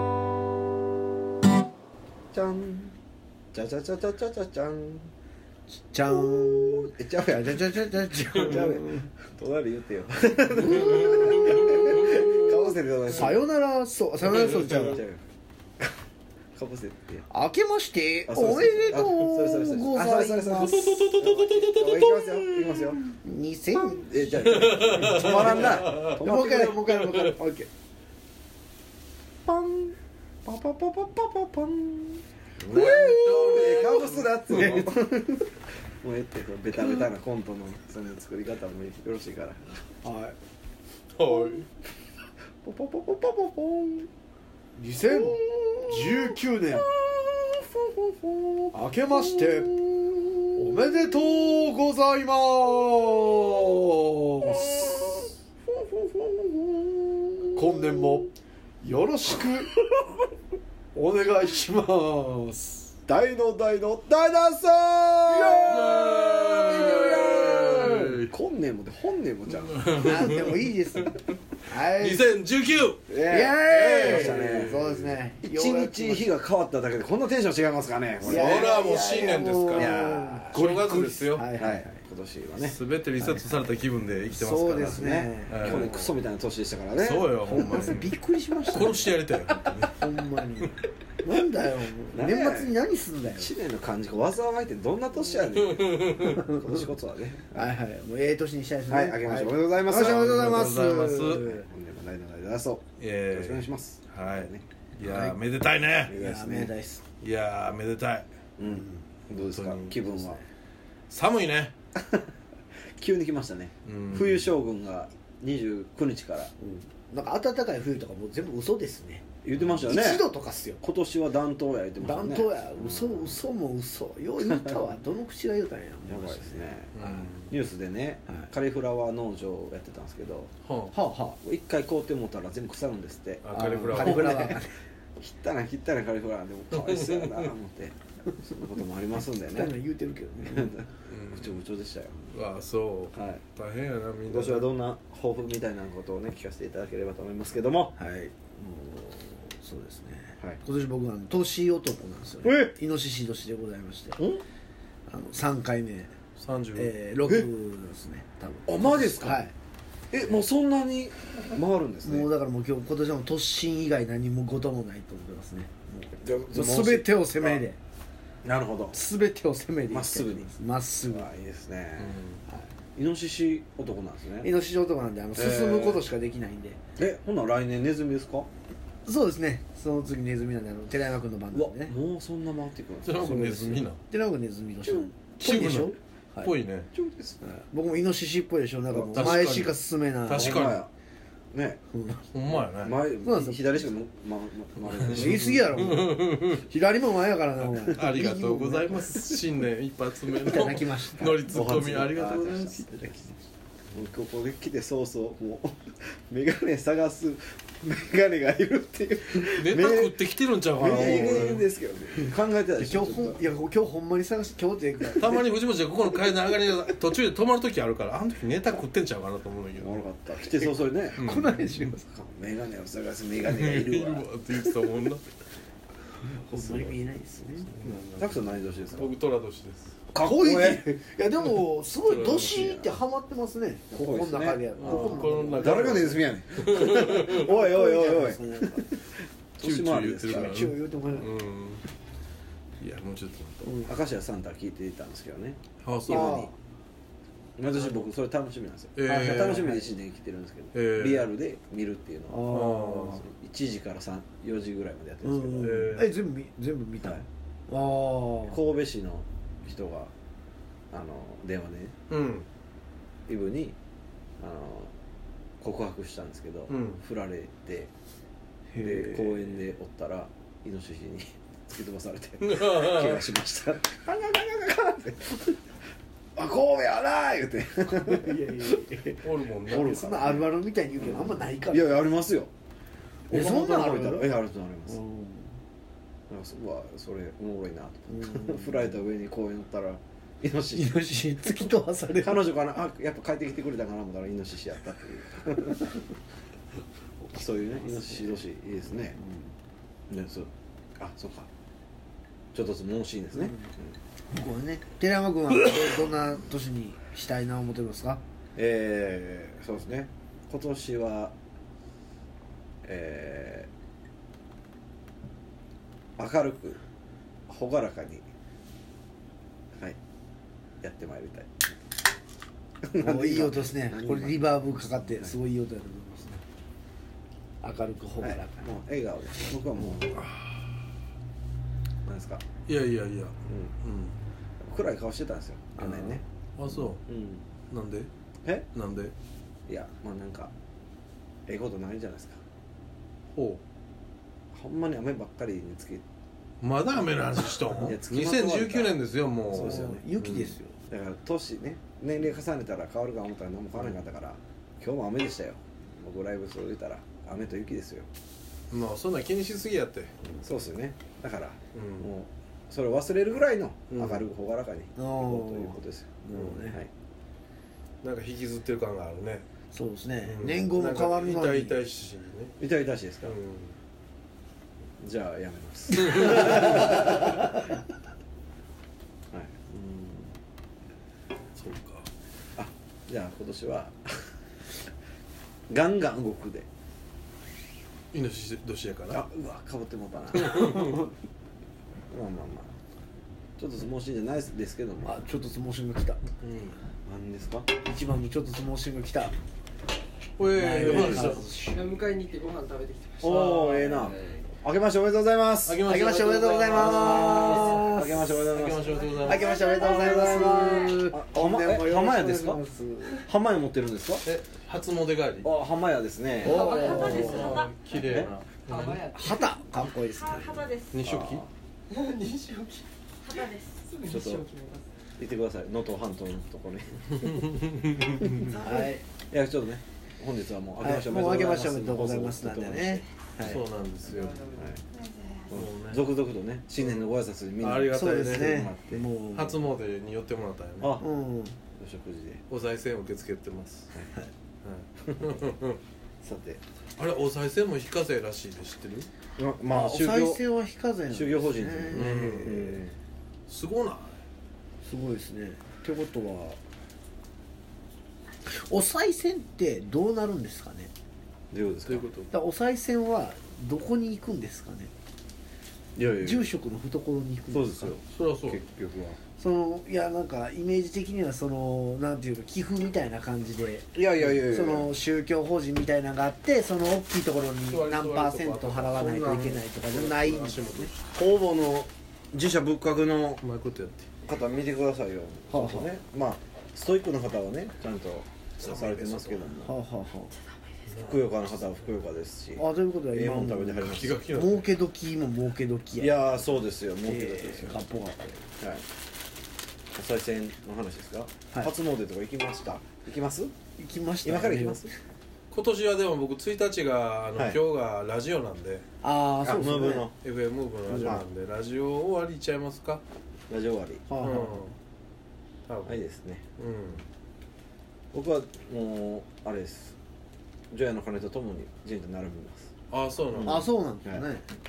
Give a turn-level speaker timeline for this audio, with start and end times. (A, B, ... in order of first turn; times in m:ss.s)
0:02.3-0:03.0 A
0:03.5-0:05.1 A
0:05.7-0:09.1 B
0:06.1-0:13.4 A
0:10.6-0:12.4 B
0:10.9-0:12.5 C
0:13.1-0:15.0 B
0:14.2-0:15.2 A
0:14.3-0:14.8 C
0:16.6-0:17.3 A
0:17.3-0:21.1 B
0:18.3-0:23.0 A
0:20.6-0:22.8 C
0:23.2-0:24.1 B
0:23.7-0:26.9 A
0:24.4-0:26.2 C
0:25.1-0:27.7 B
0:26.9-0:27.2 C
0:29.5-0:35.4 A
0:32.6-0:34.9 C
0:32.8-0:33.9 B
0:34.6-0:35.2 B
0:36.0-0:39.7 A
0:40.0-0:40.4 B
0:41.2-0:41.6 C
0:42.6-0:44.1 A
0:44.8-0:46.9 B
0:45.0-0:51.4 A
0:48.7-0:49.8 B
0:50.5-0:54.8 B
0:54.4-0:58.3 A
0:57.6-1:00.0 B
1:01.0-1:03.0 B
1:03.1-1:10.4 A
1:05.6-1:08.3 C
1:09.7-1:10.7 C
1:10.0-1:12.3 B
1:11.8-1:13.1 C
1:13.1-1:14.9 A
1:13.3-1:16.3 B
1:13.6-1:15.2 C
1:15.4-1:18.8 A
1:18.2-1:21.5 C
1:18.2-1:21.8 B
1:19.7-1:20.5 A
1:21.6-1:22.8 A
1:22.6-1:26.2 C
1:23.2-1:23.6 B
1:24.3-1:26.0 B
1:24.8-1:28.0 A
1:27.0-1:30.0 C
1:27.4-1:29.1 B
1:29.9-1:33.6 B
1:32.1-1:32.8 A
1:33.3-1:37.8 A
1:35.6-1:36.4 C
1:36.2-1:36.8 B
1:37.5-1:41.6 B
1:38.9-1:44.6 A
1:39.9-1:41.6 C
1:43.0-1:46.2 C
1:45.0-1:45.4 B
1:46.1-1:46.7 A
1:46.1-1:47.0 B
1:47.2-1:48.3 C
1:48.6-1:50.4 A
1:48.6-1:49.0 B
1:49.3-1:50.4 C
1:51.1-1:51.7 C
1:52.0-1:52.2 A
1:53.0-1:56.5 A
1:53.8-1:54.5 C
1:56.6-1:59.3 B
1:59.4-2:00.2 A
1:59.9-2:00.8 B
2:00.8-2:03.4 A
2:02.0-2:06.7 B
2:04.4-2:04.8 A
2:06.1-2:10.5 A
2:06.9-2:07.5 C
2:10.6-2:11.0 C
2:10.9-2:11.4 B
2:11.4-2:14.6 A
2:13.4-2:14.6 C
2:13.5-2:14.7 B
2:15.2-2:19.7 A
2:16.7-2:17.5 C
2:19.5-2:20.8 B
2:20.4-2:22.3 A
2:21.1-2:21.6 C
2:22.3-2:24.7 C
2:23.1-2:23.4 A
2:24.3-2:28.0 A
2:28.0-2:34.2 B
2:32.4-2:32.7 A
2:34.2-2:34.4 A
2:35.1-2:36.1 B
2:36.4-2:37.0 C
2:36.8-2:39.5 B
2:38.7-2:39.4 A
2:40.1-2:42.3 A
2:42.0-2:47.8 B
2:46.2-2:47.6 A
2:48.4-2:49.0 A
2:48.9-2:51.3 B
2:49.9-2:50.5 A
2:51.1-2:52.2 A
2:52.0-2:52.4 C
2:53.0-2:54.5 A
2:54.4-2:56.8 B
2:55.4-2:56.1 A
2:57.0-2:58.5 A
2:59.0-3:01.9 B
3:01.5-3:03.4 A
3:03.0-3:04.0 C
3:03.2-3:06.5 B
3:04.8-3:05.1 A
3:05.4-3:06.9 C
3:06.9-3:07.4 A
3:07.4-3:10.7 B
3:08.9-3:09.5 A
3:09.1-3:10.8 C
3:10.4-3:10.9 A
3:11.5-3:11.8 A
3:11.9-3:12.2 B
3:12.3-3:13.1 C
3:12.5-3:15.8 A
3:13.2-3:13.9 B
3:15.0-3:16.6 C
3:15.0-3:19.2 B
3:17.6-3:23.1 C
3:20.4-3:23.4 B
3:21.5-3:23.1 A
3:23.9-3:30.2 A
3:29.4-3:31.6 C
3:30.8-3:33.4 A
3:30.8-3:31.6 B
3:32.8-3:35.4 B
3:35.2-3:40.0 C
3:39.8-3:41.2 A
3:40.6-3:41.7 C
3:41.2-3:42.0 B
3:42.0-3:44.3 A
3:43.4-3:45.2 C
3:46.4-3:48.1 B
3:46.5-3:47.0 C
3:47.7-3:48.3 C
3:48.2-3:49.2 A
3:48.9-3:50.0 C
3:50.1-3:50.9 A
3:50.1-3:56.2 B
3:52.0-3:52.9 C
3:53.9-3:59.0 A
3:54.8-3:57.5 C
3:56.9-3:58.9 B
3:59.6-4:00.6 A
3:59.6-4:01.8 C
4:00.3-4:01.3 B
4:02.8-4:03.9 C
4:03.6-4:03.9 B
4:03.8-4:06.5 A
4:05.8-4:06.5 C
4:06.1-4:06.5 B
4:07.6-4:12.6 A
4:07.8-4:08.1 C
4:09.0-4:09.8 C
4:09.1-4:09.9 B
4:10.7-4:11.3 C
4:12.3-4:13.2 B
4:12.4-4:13.2 C
4:13.1-4:15.9 A
4:15.2-4:18.6 B
4:15.6-4:16.1 C
4:18.5-4:20.1 A
4:20.9-4:22.0 A
4:22.1-4:22.5 C
4:23.3-4:23.8 A
4:24.4-4:24.9 A
4:25.6-4:27.9 A
4:26.7-4:27.0 C
4:28.7-4:29.3 B
4:28.8-4:35.6 A
4:32.4-4:33.2 C
4:36.4-4:38.8 A
4:37.9-4:42.1 B
4:39.2-4:40.4 C
4:39.7-4:42.5 A
4:43.3-4:45.0 A
4:43.3-4:44.3 B
4:44.9-4:45.5 B
4:46.3-4:51.0 A
4:48.1-4:48.9 B
4:50.7-4:52.4 B
4:52.2-4:56.0 A
4:57.3-4:59.2 A
4:57.4-4:58.3 B
4:59.2-4:59.5 B
5:00.1-5:01.5 A
5:02.5-5:03.9 A
5:03.4-5:03.7 B
5:04.3-5:08.2 B
5:08.6-5:11.4 A
5:12.8-5:13.7 A
5:16.2-5:16.8 A
5:17.5-5:18.2 A
5:20.8-5:21.6 A
5:22.8-5:25.4 A
5:23.0-5:26.4 B
5:27.6-5:28.7 B
5:28.2-5:30.3 A
5:32.0-5:32.4 A
5:32.7-5:34.2 C
5:33.5-5:33.7 A
5:34.6-5:37.4 A
5:35.8-5:36.2 B
5:36.6-5:37.0 C
5:37.7-5:38.1 C
5:38.8-5:39.1 C
5:39.7-5:40.5 A
5:41.5-5:42.4 A
5:43.4-5:43.6 C
5:44.5-5:46.0 A
5:46.6-5:50.6 C
5:47.8-5:49.0 A
5:49.5-5:50.1 A
5:49.6-5:50.8 B
5:50.9-5:58.1 A
5:58.7-6:00.2 C
6:00.4-6:06.9 A
6:01.7-6:02.1 C
6:03.9-6:04.3 C
6:05.0-6:06.8 B
6:06.3-6:06.6 C
6:08.0-6:09.5 C
6:09.7-6:11.8 B
6:10.2-6:12.6 C
6:12.6-6:13.4 A
6:13.2-6:13.8 C
6:15.0-6:17.4 A
6:16.0-6:16.8 C
6:19.3-6:20.2 A
6:21.6-6:22.1 C
6:22.6-6:24.3 A
6:25.7-6:26.7 A
6:28.1-6:29.2 C
6:29.1-6:31.0 A
6:30.4-6:30.9 C
6:32.1-6:32.7 A
6:33.6-6:35.1 A
6:35.0-6:36.2 B
6:36.4-6:36.8 C
6:37.1-6:37.7 A
6:37.8-6:39.4 B
6:40.4-6:41.5 C
6:40.5-6:41.9 B
6:40.8-6:41.4 A
6:40.9-6:44.5 D
6:43.2-6:45.8 A
6:45.7-6:49.6 C
6:45.8-6:48.3 B
6:46.7-6:49.1 A
6:49.2-6:51.0 E
6:49.2-6:53.3 B
6:49.8-6:52.6 A
6:53.2-6:54.3 A
6:54.2-6:55.5 C
6:55.4-6:56.8 A
6:56.4-6:57.6 B
6:56.4-6:57.8 D
6:56.5-6:57.8 E
6:56.8-6:59.1 C
6:58.0-6:58.3 A
6:58.7-6:59.6 D
6:59.1-7:00.7 B
7:00.1-7:01.0 E
7:00.9-7:01.4 C
7:01.0-7:01.5 A
7:01.9-7:02.9 D
7:03.2-7:03.8 E
7:03.8-7:04.9 D
7:04.1-7:04.4 A
7:05.2-7:07.3 A
7:07.2-7:08.4 C
7:08.3-7:08.8 D
7:08.4-7:09.0 B
7:09.3-7:13.0 A
7:10.8-7:13.6 B
7:13.4-7:14.5 C
7:14.1-7:14.8 D
7:14.9-7:15.6 E
7:15.5-7:19.1 A
7:15.5-7:16.1 C
7:16.8-7:18.7 C
7:17.9-7:19.6 B
7:19.3-7:21.0 C
7:20.8-7:21.1 A
7:21.0-7:21.6 B
7:21.8-7:22.4 A
7:22.5-7:23.9 C
7:24.6-7:25.8 C
7:25.0-7:25.4 A
7:26.2-7:26.6 A
7:27.0-7:29.1 C
7:29.4-7:30.4 A
7:29.7-7:32.8 B
7:31.1-7:33.0 A
7:31.9-7:32.8 C
7:33.5-7:34.2 C
7:34.8-7:36.6 B
7:38.5-7:40.9 B
7:41.5-7:42.1 A
7:41.9-7:42.3 C
7:42.3-7:44.9 B
7:46.0-7:46.5 A
7:46.2-7:48.0 B
7:47.5-7:49.2 A
7:48.1-7:48.6 C
7:49.4-8:00.9 B
7:53.9-7:54.9 A
7:57.7-8:01.1 C
8:01.1-8:03.4 A
8:03.4-8:04.1 C
8:04.2-8:09.8 A
8:05.5-8:05.9 B
8:08.6-8:09.5 C
8:09.6-8:10.3 B
8:10.9-8:11.4 C
8:11.0-8:14.2 A
8:12.6-8:16.3 B
8:13.8-8:14.7 C
8:16.0-8:17.8 A
8:17.0-8:18.4 B
8:18.6-8:18.8 A
8:19.9-8:23.5 A
8:23.8-8:24.9 B
8:24.2-8:24.9 A
8:25.5-8:28.8 C
8:29.0-8:30.1 B
8:29.4-8:30.2 A
8:30.2-8:33.0 C
8:30.9-8:31.2 A
8:30.9-8:31.2 B
8:33.5-8:34.1 A
8:34.1-8:34.6 B
8:34.2-8:34.7 C
8:35.7-8:36.0 C
8:35.8-8:36.4 A
8:36.6-8:37.0 C
8:38.1-8:40.0 A
8:40.7-8:42.7 A
8:42.9-8:43.7 C
8:43.3-8:44.2 A
8:43.4-8:44.5 B